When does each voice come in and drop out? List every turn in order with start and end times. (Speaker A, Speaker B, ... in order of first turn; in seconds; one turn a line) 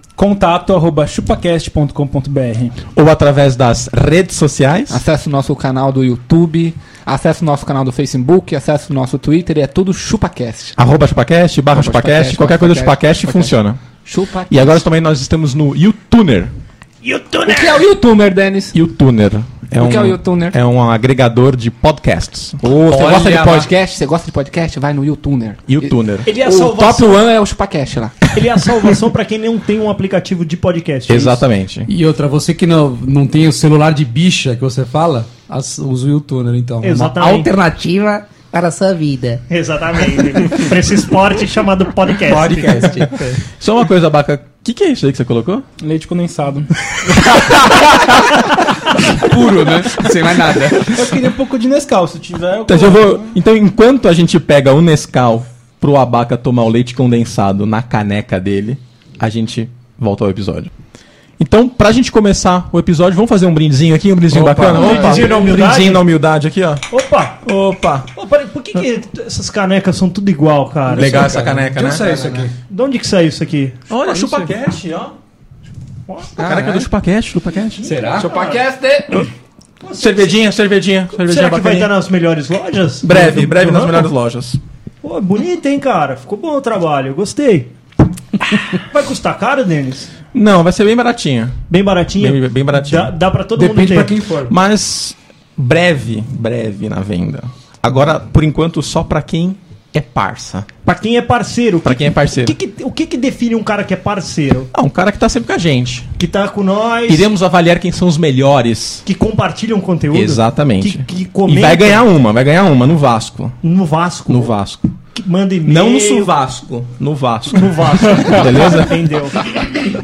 Speaker A: 0.1-2.8
Speaker B: 2.9-5.0
Speaker C: 4.9-10.8
Speaker B: 10.8-13.8
Speaker C: 11.7-14.7
Speaker B: 14.5-16.5
Speaker D: 17.0-17.8
Speaker C: 17.4-18.7
Speaker B: 18.7-23.2
Speaker C: 19.8-20.6
Speaker C: 22.6-28.1
Speaker E: 22.8-23.7
Speaker B: 25.7-26.3
Speaker D: 26.3-27.1
Speaker D: 28.3-31.4
Speaker B: 31.1-31.9
Speaker E: 31.9-37.1
Speaker D: 36.8-37.5
Speaker F: 37.1-39.4
Speaker D: 39.5-43.4
Speaker E: 42.3-43.1
Speaker B: 43.5-45.6
Speaker A: 45.8-46.6
Speaker E: 47.3-51.0
Speaker A: 51.1-53.2
Speaker B: 52.7-60.7
Speaker B: 61.4-66.8
Speaker E: 64.3-65.0
Speaker D: 64.5-66.1
Speaker D: 66.9-67.5
Speaker B: 67.4-68.1
Speaker D: 68.1-71.4
Speaker B: 70.9-72.1
Speaker E: 70.9-72.5
Speaker D: 72.1-73.8
Speaker B: 73.9-75.1
Speaker D: 76.1-76.3
Speaker C: 76.4-76.9
Speaker B: 76.4-77.8
Speaker D: 77.8-78.6
Speaker E: 77.8-78.3
Speaker C: 78.1-79.3
Speaker D: 79.8-80.3
Speaker B: 80.0-81.9
Speaker D: 81.2-84.1
Speaker B: 83.0-84.6
Speaker D: 85.0-87.7
Speaker D: 88.7-90.1
Speaker B: 90.3-91.6
Speaker D: 91.7-94.1
Speaker B: 92.2-93.1
Speaker E: 93.5-94.5
Speaker B: 94.4-100.7
Speaker D: 100.8-104.7
Speaker B: 101.8-102.5
Speaker B: 104.7-106.1
Speaker D: 106.2-107.2
Speaker B: 107.1-109.0
Speaker D: 109.0-112.1
Speaker B: 110.1-113.6
Speaker D: 113.6-114.5
Speaker B: 114.3-115.0
Speaker D: 115.1-116.3
Speaker B: 115.6-119.0
Speaker D: 117.5-119.6